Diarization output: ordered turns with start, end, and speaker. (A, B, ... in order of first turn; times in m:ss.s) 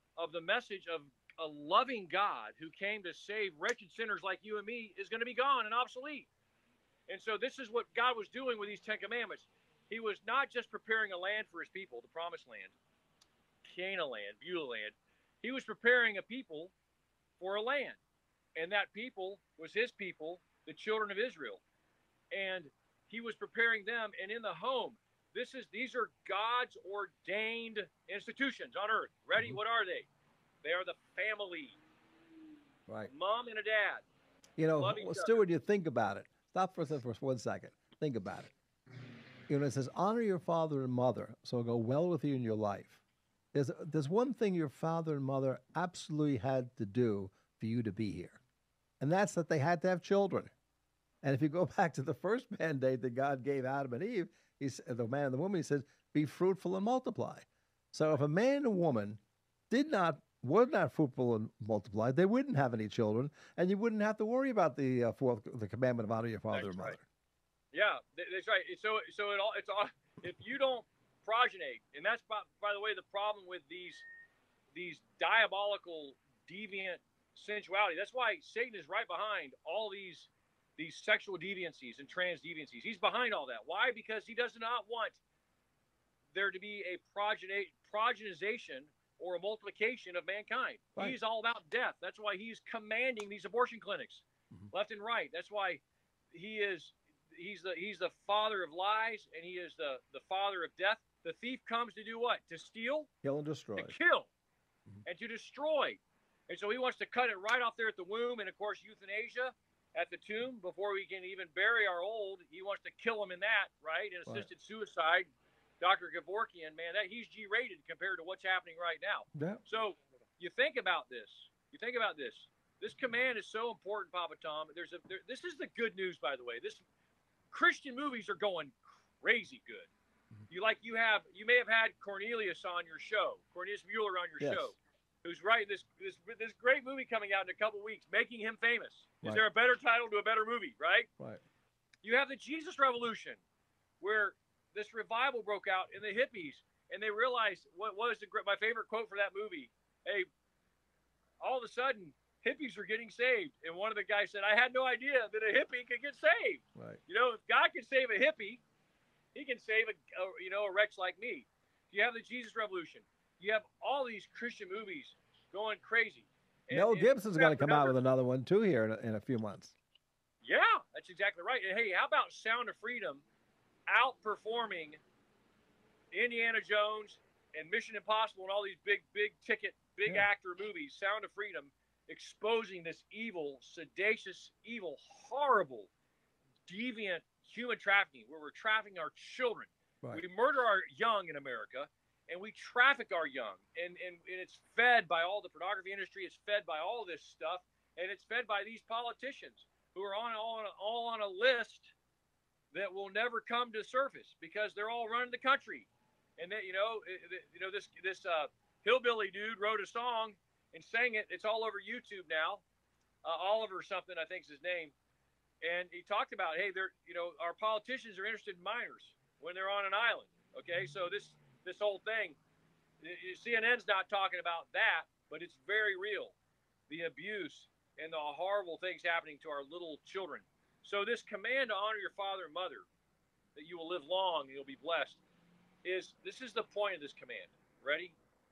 0:00.2-0:06.3 A
0:07.1-0:12.8 A
0:13.6-0:16.7 A
0:17.4-0:18.0 A
0:18.6-0:21.6 A
0:22.3-0:30.1 A
0:30.6-0:31.8 A
0:33.1-0:34.0 A
0:34.6-0:38.5 B
0:34.8-0:35.4 A
0:39.5-0:43.0 B
0:43.5-0:48.4 B
0:49.0-0:50.5 B
0:51.2-1:07.0 B
1:06.5-1:07.0 A
1:07.7-1:14.1 A
1:14.7-1:25.2 A
1:26.3-1:43.1 A
1:43.2-1:44.0 B
1:43.8-1:44.3 A
1:45.0-1:55.3 A
1:55.8-2:06.8 A
1:59.4-1:59.6 B
2:07.5-2:09.9 A
2:10.5-2:21.1 A
2:14.4-2:14.7 B
2:22.0-2:23.4 A
2:24.0-2:30.3 A
2:31.4-2:38.6 A
2:36.8-2:37.0 B
2:39.4-2:48.0 A
2:46.7-2:49.8 B
2:50.4-2:53.2 A
2:53.9-2:55.0 A
2:56.1-3:05.9 A
3:06.7-3:21.9 A
3:22.7-3:32.6 A
3:33.2-3:34.9 A
3:35.6-3:42.4 A
3:43.0-3:46.4 A
3:46.9-3:52.9 A
3:53.6-3:55.2 A
3:55.8-3:58.2 A